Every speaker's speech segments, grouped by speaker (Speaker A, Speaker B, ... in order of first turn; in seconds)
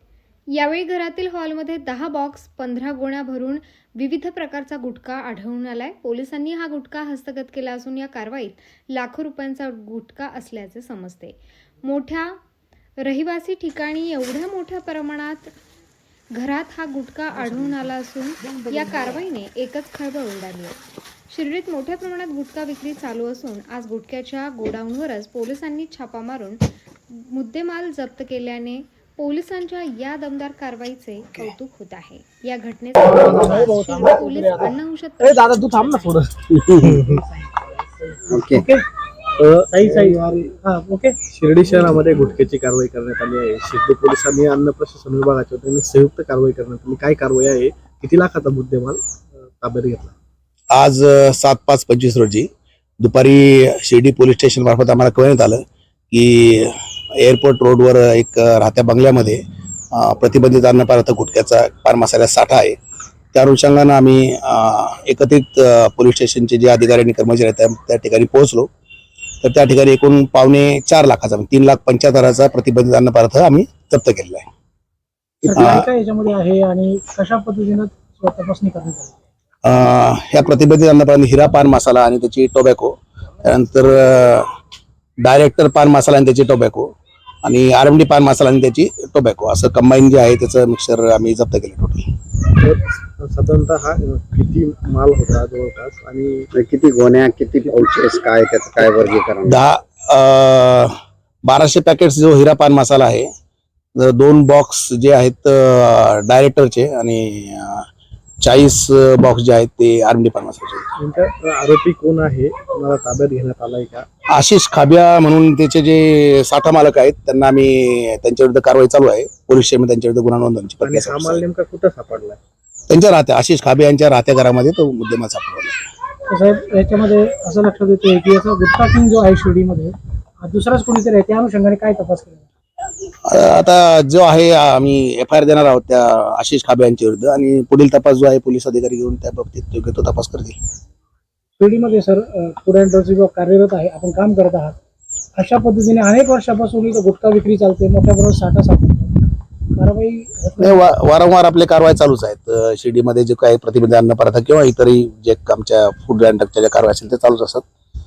Speaker A: 0.5-12.4, 13.0-15.5, 16.3-20.8, 21.3-36.3
Speaker B: 35.2-37.2, 39.4-40.5, 41.3-49.0, 49.6-50.1, 92.6-96.5, 111.0-114.0, 120.8-122.4
Speaker C: 36.7-37.0, 38.3-38.7, 96.5-99.6
Speaker D: 38.5-38.9, 39.6-41.1, 75.4-79.2, 126.3-132.4, 141.6-144.8, 145.3-149.2, 149.7-150.8
Speaker E: 50.7-52.5, 53.0-59.4, 59.9-62.8, 63.3-68.7, 69.4-74.5, 75.5-75.8, 79.6-84.5, 85.2-86.9, 87.4-92.0, 99.5-100.9, 101.5-103.3, 104.0-107.8, 108.4-110.9, 114.3-121.4, 122.9-125.8, 133.3-140.5, 150.6-157.6